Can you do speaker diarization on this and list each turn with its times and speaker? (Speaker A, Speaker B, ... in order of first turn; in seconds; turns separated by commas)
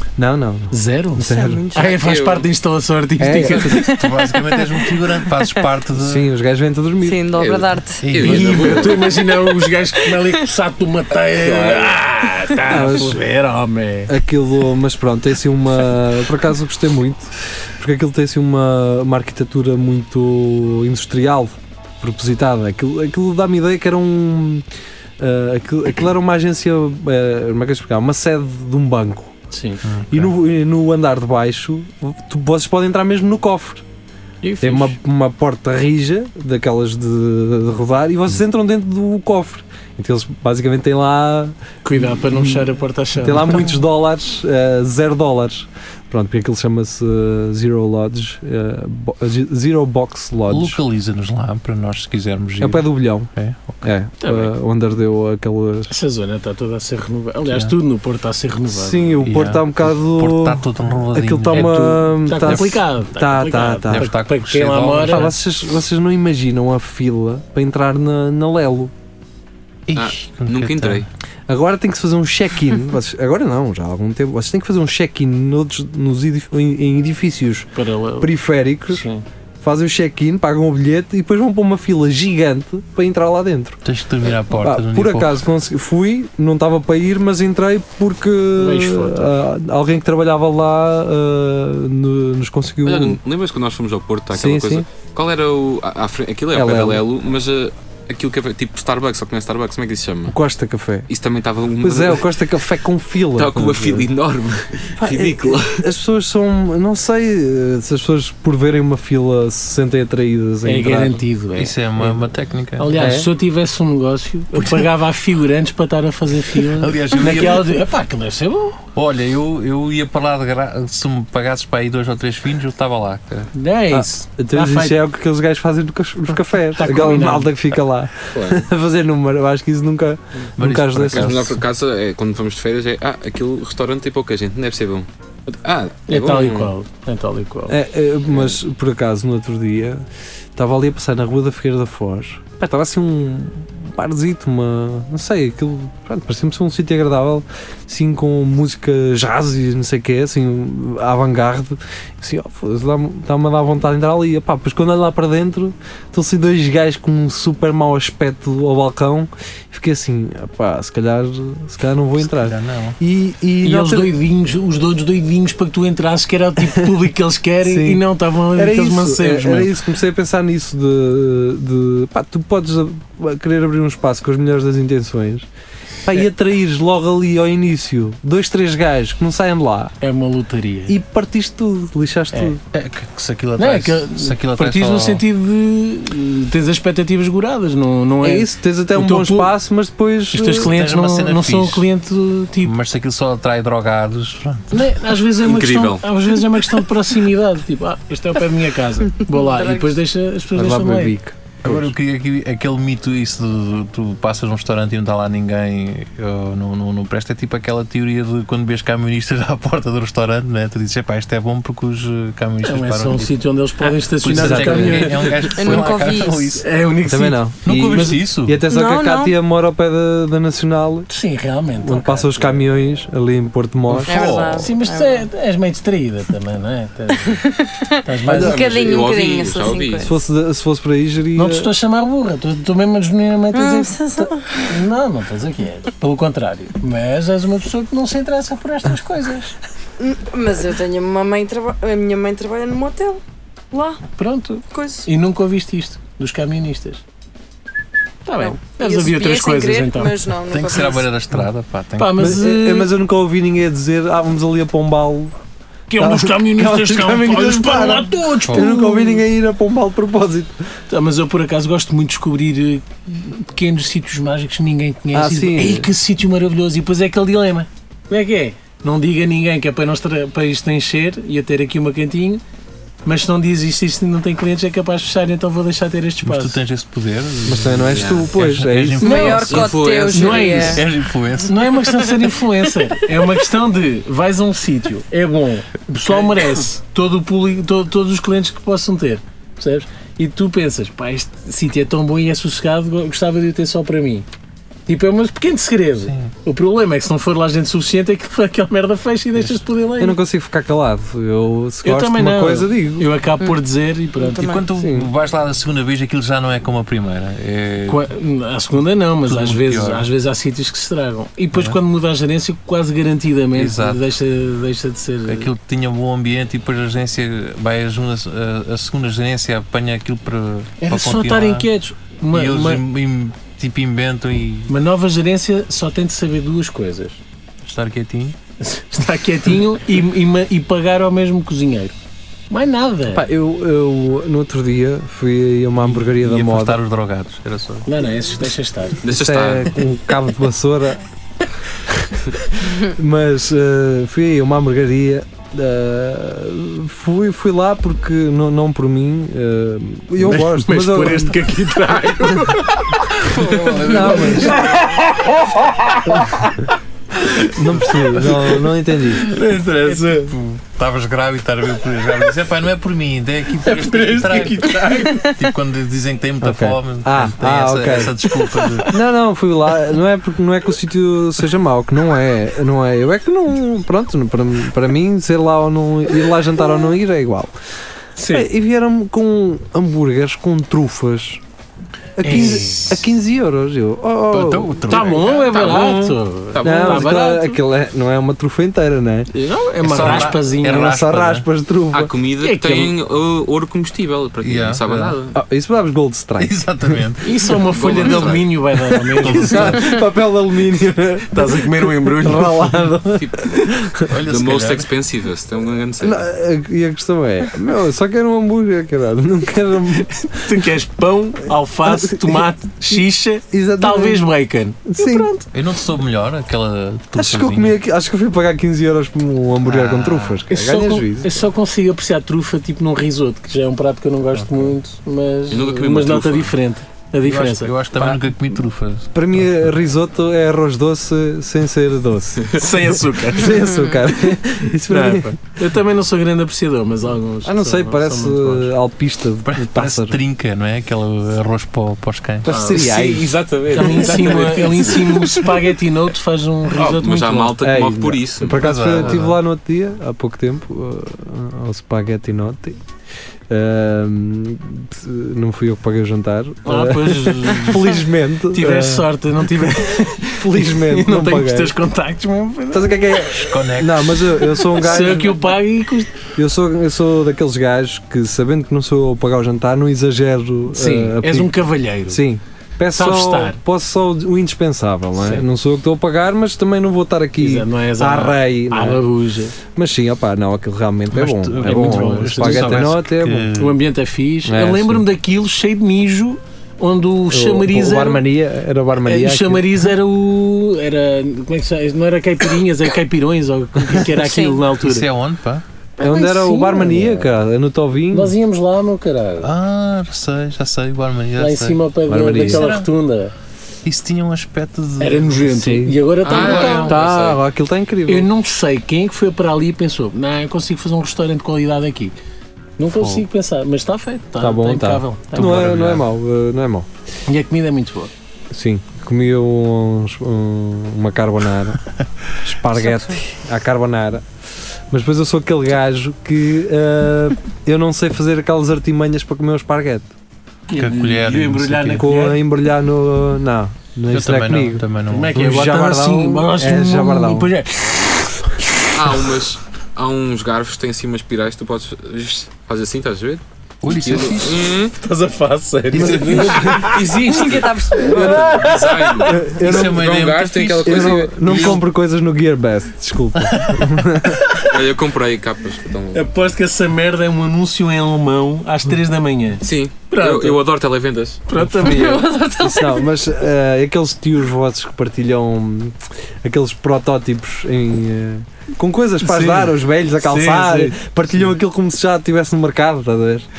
Speaker A: 0.2-1.7, Speaker B: 0.7-4.1, Speaker C: 1.3-1.9, Speaker D: 1.7-2.5, Speaker A: 3.2-4.0, Speaker E: 3.4-6.3, Speaker A: 5.9-7.2, Speaker C: 7.0-8.1, Speaker D: 7.3-9.1, Speaker E: 8.0-9.0, Speaker B: 8.2-14.1, Speaker D: 11.4-11.9, Speaker A: 12.7-13.2, Speaker A: 14.1-24.6, Speaker A: 25.2-29.4, Speaker B: 29.5-29.8, Speaker E: 29.9-30.3, Speaker A: 30.1-33.8, Speaker B: 34.4-35.0, Speaker A: 34.6-41.6, Speaker B: 41.8-43.8, Speaker A: 42.2-42.7, Speaker A: 43.2-50.8, Speaker E: 50.5-53.9, Speaker A: 52.6-53.3, Speaker A: 53.8-55.9, Speaker B: 54.2-54.5, Speaker B: 55.9-59.3, Speaker A: 58.7-64.1, Speaker E: 59.2-61.9, Speaker B: 61.5-65.3, Speaker E: 62.4-62.8, Speaker E: 63.9-65.4, Speaker A: 65.0-68.9, Speaker E: 69.9-71.1, Speaker D: 69.9-71.1, Speaker A: 71.5-79.0, Speaker B: 77.8-78.3, Speaker B: 78.9-79.2, Speaker A: 79.6-83.8, Speaker E: 83.8-85.4, Speaker A: 84.5-93.2, Speaker B: 88.6-89.3, Speaker D: 92.8-100.4, Speaker A: 94.3-94.9, Speaker A: 96.5-97.0, Speaker A: 100.3-101.1, Speaker D: 101.1-102.3, Speaker A: 101.8-104.1, Speaker D: 103.3-105.8, Speaker A: 105.0-111.2, Speaker B: 110.6-112.3, Speaker E: 111.6-113.1, Speaker B: 112.8-118.8, Speaker A: 113.0-113.3, Speaker E: 114.6-114.9, Speaker E: 116.5-117.7, Speaker E: 119.0-123.5, Speaker B: 123.5-125.0, Speaker A: 123.9-131.6, Speaker B: 126.7-127.5, Speaker D: 128.3-128.7, Speaker E: 130.6-131.6, Speaker D: 131.1-136.7, Speaker B: 136.1-137.8, Speaker A: 137.7-164.1, Speaker E: 162.2-163.0, Speaker B: 163.6-169.7, Speaker A: 167.6-168.0, Speaker A: 168.6-175.5, Speaker A: 176.0-180.0, Speaker B: 180.0-181.0, Speaker A: 180.9-182.6, Speaker E: 182.7-185.2, Speaker B: 183.6-189.5, Speaker A: 188.2-190.7, Speaker B: 190.3-192.7, Speaker E: 190.7-191.9, Speaker E: 192.6-194.8, Speaker B: 194.7-201.2, Speaker D: 195.4-196.1, Speaker C: 199.3-199.9, Speaker A: 200.5-201.8, Speaker E: 201.6-216.7, Speaker B: 212.6-215.5, Speaker A: 214.3-215.2, Speaker C: 215.6-216.6, Speaker B: 216.6-218.2, Speaker A: 217.1-221.1, Speaker E: 217.7-218.6, Speaker C: 218.7-219.3, Speaker B: 221.1-222.6, Speaker A: 221.8-224.3, Speaker C: 224.1-225.3, Speaker B: 224.1-227.4, Speaker E: 224.1-224.7, Speaker C: 227.3-230.1, Speaker B: 228.0-228.7, Speaker A: 228.3-228.6, Speaker D: 228.4-230.1, Speaker A: 230.0-231.7, Speaker B: 231.3-239.6, Speaker C: 233.5-234.8, Speaker C: 240.0-244.0, Speaker B: 244.2-247.0, Speaker C: 244.7-245.1, Speaker B: 248.3-250.2, Speaker C: 248.4-251.1, Speaker E: 250.5-252.3, Speaker B: 252.0-252.9, Speaker A: 252.2-255.3, Speaker B: 255.9-259.2, Speaker A: 256.0-260.6, Speaker B: 260.9-272.4, Speaker A: 265.1-265.9, Speaker B: 273.1-276.6, Speaker E: 276.2-279.7, Speaker A: 277.4-279.5, Speaker D: 277.9-278.3, Speaker C: 279.0-280.8, Speaker D: 279.4-280.7, Speaker B: 280.1-280.9, Speaker E: 280.4-281.8, Speaker B: 281.4-294.3, Speaker B: 294.9-300.2, Speaker E: 296.1-296.3, Speaker A: 300.0-303.1, Speaker B: 301.8-304.6, Speaker C: 304.3-304.6, Speaker E: 304.3-308.1, Speaker A: 304.8-305.1, Speaker B: 307.9-315.5, Speaker E: 309.3-310.1, Speaker E: 313.6-314.0, Speaker E: 315.3-321.7, Speaker B: 320.8-322.8, Speaker E: 322.3-324.7, Speaker B: 324.7-327.2, Speaker E: 327.6-328.4, Speaker B: 328.6-331.9, Speaker B: 332.5-333.3, Speaker A: 333.1-336.8, Speaker E: 335.8-337.9, Speaker B: 337.9-339.0, Speaker D: 339.0-339.8, Speaker A: 339.1-341.0, Speaker A: 341.9-351.4, Speaker B: 350.2-356.6, Speaker E: 353.2-354.9, Speaker D: 353.5-354.0, Speaker A: 353.8-354.7, Speaker A: 357.5-359.2, Speaker B: 358.2-358.6, Speaker B: 359.2-360.4, Speaker E: 359.3-368.9, Speaker B: 363.6-365.4, Speaker A: 366.4-368.2, Speaker B: 368.2-368.9, Speaker A: 368.9-377.5, Speaker B: 378.2-378.5, Speaker A: 378.3-381.4, Speaker A: 382.2-385.1, Speaker B: 382.2-382.9, Speaker E: 382.2-382.9, Speaker E: 384.3-386.0, Speaker B: 384.9-387.6, Speaker D: 385.3-387.2, Speaker A: 386.6-389.3, Speaker B: 389.3-391.0, Speaker E: 389.8-391.5, Speaker A: 390.1-392.1, Speaker D: 391.9-395.4, Speaker B: 392.4-392.9, Speaker E: 394.4-395.2, Speaker A: 395.3-397.0, Speaker E: 396.4-398.2, Speaker B: 397.2-399.8, Speaker D: 397.7-398.5, Speaker E: 399.2-400.0, Speaker A: 399.2-404.1, Speaker B: 401.3-403.0, Speaker D: 403.1-406.2, Speaker E: 404.1-404.9, Speaker A: 406.0-410.6, Speaker B: 410.1-415.5, Speaker A: 411.8-414.3, Speaker A: 414.9-415.3, Speaker E: 415.5-417.8, Speaker A: 417.2-421.4, Speaker E: 419.6-420.4, Speaker B: 420.5-427.7, Speaker D: 425.5-426.5, Speaker E: 427.2-429.4, Speaker A: 429.1-435.4, Speaker B: 432.5-433.7, Speaker C: 433.7-434.0, Speaker B: 434.9-438.7, Speaker A: 437.4-440.2, Speaker E: 439.4-442.5, Speaker A: 442.4-443.4, Speaker B: 442.5-442.9, Speaker D: 442.5-445.4, Speaker B: 443.7-447.6, Speaker D: 446.7-448.6, Speaker A: 447.6-452.8, Speaker E: 448.5-449.4, Speaker A: 453.5-459.1, Speaker B: 456.6-463.3, Speaker A: 460.3-461.8, Speaker A: 462.7-465.4, Speaker E: 463.3-464.5, Speaker B: 464.6-466.1, Speaker A: 466.3-479.0, Speaker B: 470.7-472.2, Speaker B: 472.9-473.6, Speaker B: 475.2-475.4, Speaker B: 477.4-479.6, Speaker A: 479.6-483.5, Speaker E: 481.1-483.8, Speaker B: 481.6-482.9, Speaker B: 483.6-488.2, Speaker A: 484.4-485.0, Speaker A: 487.3-489.7, Speaker B: 489.0-495.1, Speaker C: 494.1-494.6, Speaker E: 494.8-495.6, Speaker A: 496.0-498.3, Speaker C: 496.0-496.8, Speaker B: 496.1-497.3, Speaker B: 498.1-499.5, Speaker E: 499.4-501.8, Speaker B: 501.4-503.3, Speaker A: 502.1-502.7, Speaker E: 502.4-502.9, Speaker E: 503.9-505.4, Speaker B: 505.0-507.0, Speaker A: 505.4-506.0, Speaker D: 506.2-507.4, Speaker E: 506.3-506.9, Speaker A: 506.9-508.3, Speaker B: 508.1-512.1, Speaker B: 512.8-516.0, Speaker E: 512.9-513.2, Speaker A: 514.4-516.9, Speaker E: 515.4-516.1, Speaker B: 517.3-518.1, Speaker A: 518.5-521.8, Speaker A: 522.4-524.2, Speaker A: 524.9-530.1, Speaker B: 530.7-532.4, Speaker E: 530.8-532.1, Speaker A: 532.0-537.5, Speaker E: 534.1-535.6, Speaker B: 535.1-538.6, Speaker D: 538.9-544.9, Speaker E: 543.8-544.7, Speaker B: 545.0-547.5, Speaker A: 545.9-547.1, Speaker E: 546.0-546.2, Speaker D: 546.1-551.8, Speaker C: 547.3-548.5, Speaker B: 548.0-549.5, Speaker A: 549.3-550.1, Speaker E: 549.6-551.8, Speaker A: 550.8-554.4, Speaker E: 553.5-553.9, Speaker D: 554.5-556.2, Speaker B: 556.1-560.6, Speaker D: 559.6-561.4, Speaker B: 561.5-562.3, Speaker C: 561.8-563.1, Speaker A: 562.6-573.5, Speaker B: 569.2-571.0